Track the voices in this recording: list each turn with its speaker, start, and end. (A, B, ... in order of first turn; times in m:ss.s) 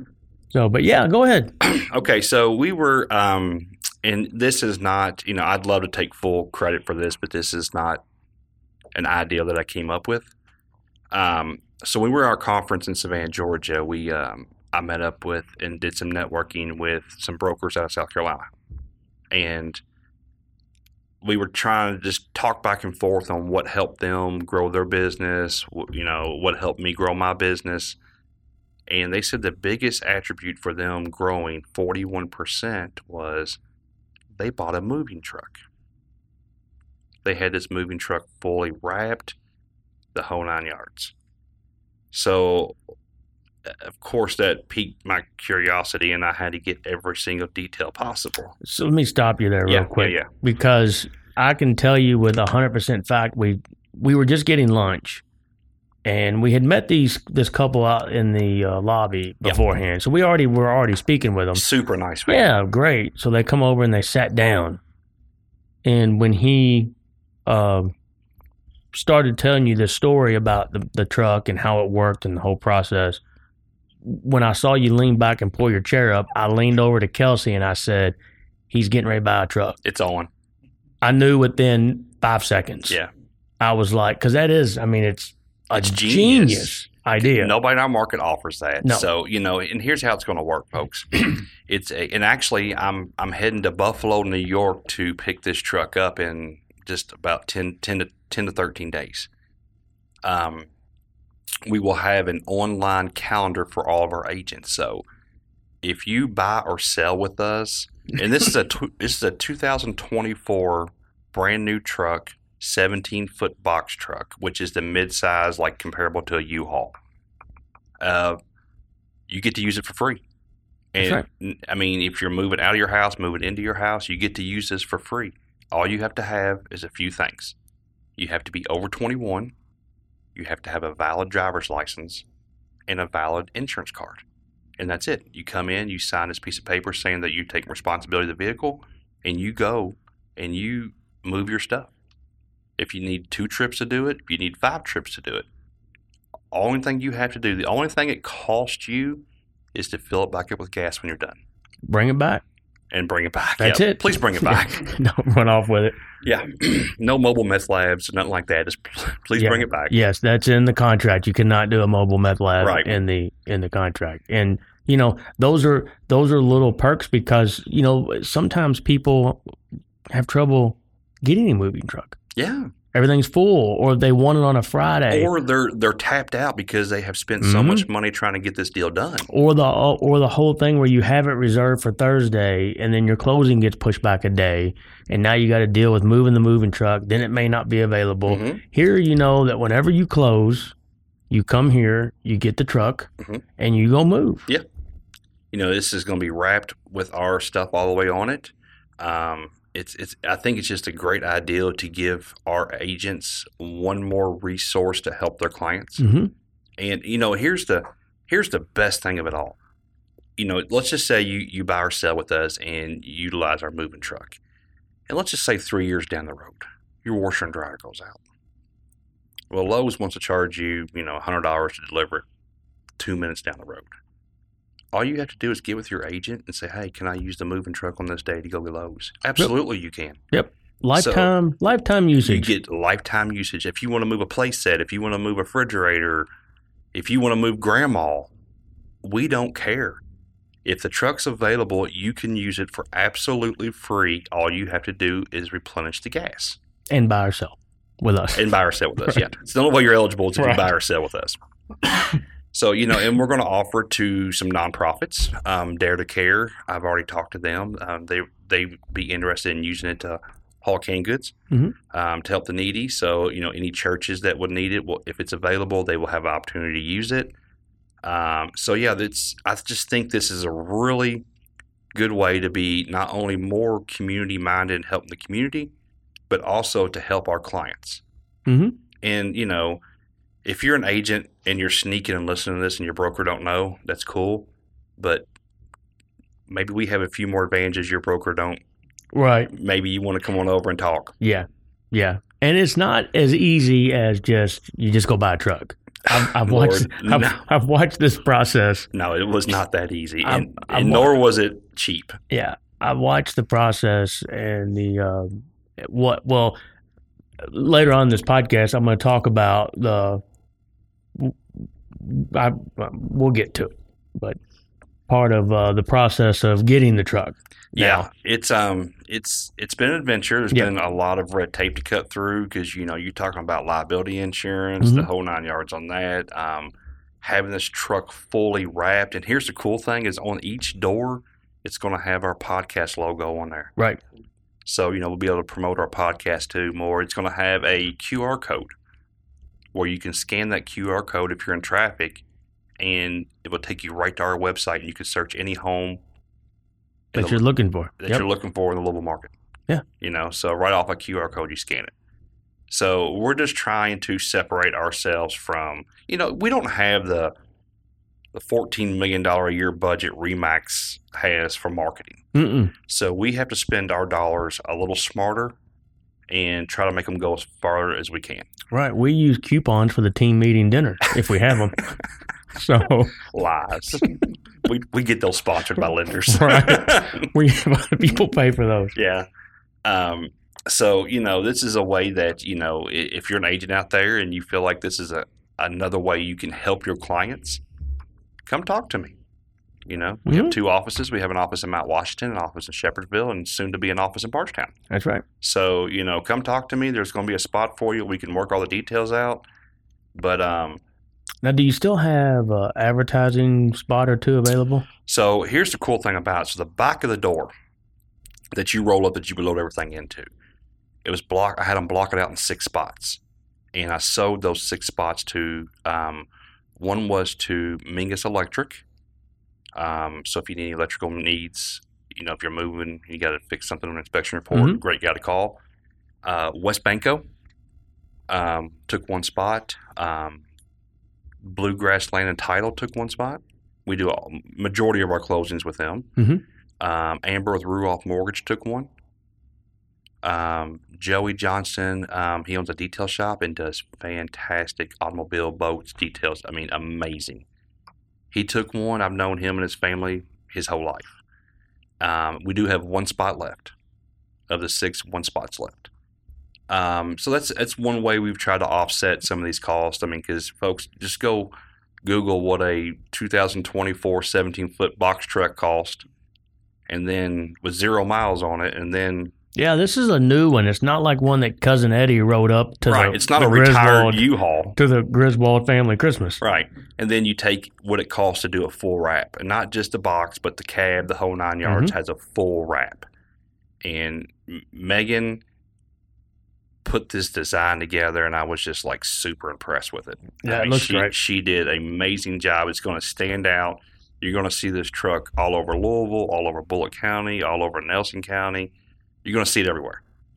0:00.5-0:01.5 A
0:01.6-0:08.0 B
0:08.9-0:10.3 B
0:11.1-0:18.5 B
0:19.3-0:19.8 B
0:21.2-0:28.0 B
0:28.9-0:33.6 B
0:34.4-0:35.6 B
0:37.2-0:39.4 B
0:40.1-0:41.1 B
0:42.1-0:42.8 B
0:43.6-0:48.6 B
0:48.6-0:55.2 A
0:49.7-0:50.3 B
0:56.0-1:01.6 A
1:01.5-1:02.5 B
1:02.3-1:04.8 A
1:05.8-1:06.9 A
1:07.5-1:07.9 A
1:08.9-1:13.2 A
1:14.0-1:18.2 A
1:18.7-1:19.8 A
1:19.8-1:20.3 B
1:21.0-1:23.0 A
1:23.6-1:27.5 A
1:25.7-1:39.3 B
1:40.2-1:40.7 B
1:41.7-1:45.1 B
1:45.8-1:57.0 B
1:58.0-1:58.4 B
1:59.3-2:00.2 B
2:00.9-2:07.6 B
2:01.0-2:01.2 A
2:08.2-2:09.5 B
2:10.4-2:12.2 B
2:12.9-2:14.2 B
2:14.8-2:21.9 B
2:22.8-2:25.5 B
2:26.5-2:31.4 B
2:31.9-2:32.4 A
2:32.9-2:34.9 B
2:33.6-2:36.0 A
2:36.2-2:40.0 B
2:39.4-2:49.5 A
2:42.6-2:43.0 B
2:50.1-2:52.2 A
2:52.4-2:52.7 B
2:52.9-2:55.3 A
2:55.1-2:59.3 B
2:57.4-2:57.9 A
2:59.3-3:10.8 A
3:08.3-3:08.6 B
3:11.3-3:14.5 A
3:15.5-3:26.0 B
3:26.0-3:26.3 A
3:26.8-3:29.6 B
3:30.4-3:34.4 B
3:35.1-3:38.2 B
3:39.5-3:42.3 B
3:43.0-3:43.9 B
3:44.9-3:50.2 B
3:50.3-3:52.5 A
3:50.9-3:51.3 B
3:52.2-3:56.3 B
3:56.9-3:58.3 B
3:59.0-4:00.0 B
4:00.6-4:06.6 B
4:06.9-4:08.5 A
4:08.4-4:11.4 B
4:10.4-4:10.7 A
4:12.5-4:21.4 B
4:21.9-4:27.3 B
4:28.0-4:31.2 B
4:31.9-4:35.7 B
4:36.3-4:38.0 B
4:38.5-4:38.8 A
4:39.0-4:39.8 B
4:40.4-4:45.3 B
4:46.5-4:48.6 B
4:49.1-4:49.5 A
4:49.5-4:51.2 B
4:51.2-4:58.9 A
4:56.1-4:57.5 B
4:58.9-5:02.2 B
5:00.2-5:01.2 A
5:02.3-5:06.6 A
5:07.4-5:10.2 A
5:12.0-5:14.4 A
5:15.1-5:18.1 A
5:17.7-5:33.7 B
5:24.8-5:25.1 A
5:34.6-5:38.8 B
5:39.7-5:42.2 B
5:42.8-5:46.0 B
5:47.1-5:47.4 B
5:47.1-5:48.3 A
5:48.0-5:49.3 B
5:50.0-5:51.9 B
5:52.7-5:57.3 B
5:58.3-6:02.3 B
6:02.3-6:02.7 A
6:02.9-6:05.6 B
6:06.3-6:08.5 B
6:08.7-6:11.9 A
6:12.5-6:13.2 A
6:13.3-6:14.1 B
6:14.6-6:17.3 B
6:16.3-6:18.9 A
6:19.0-6:19.3 B
6:19.8-6:27.6 B
6:28.4-6:29.2 B
6:29.9-6:34.7 B
6:30.3-6:30.6 A
6:34.9-6:35.2 A
6:35.4-6:39.4 B
6:40.2-6:40.8 B
6:41.4-6:44.9 A
6:45.1-6:47.5 B
6:48.5-6:50.3 B
6:51.0-6:53.2 B
6:53.7-6:58.8 B
6:59.8-7:05.6 B
7:04.5-7:04.8 A
7:06.2-7:07.3 B
7:08.3-7:10.4 B
7:11.4-7:16.1 B
7:16.2-7:16.4 A
7:16.8-7:18.9 B
7:20.2-7:27.5 B
7:28.3-7:31.2 B
7:32.0-7:33.8 B
7:34.5-7:35.9 B
7:36.7-7:41.5 B
7:42.0-7:46.1 B
7:46.9-7:49.3 B
7:49.6-7:54.2 A
7:52.9-7:54.8 B
7:54.8-7:56.4 A
7:56.4-8:03.1 B
8:01.6-8:01.9 A
8:03.8-8:05.4 B
8:06.8-8:18.7 B
8:10.4-8:11.1 A
8:19.2-8:20.0 B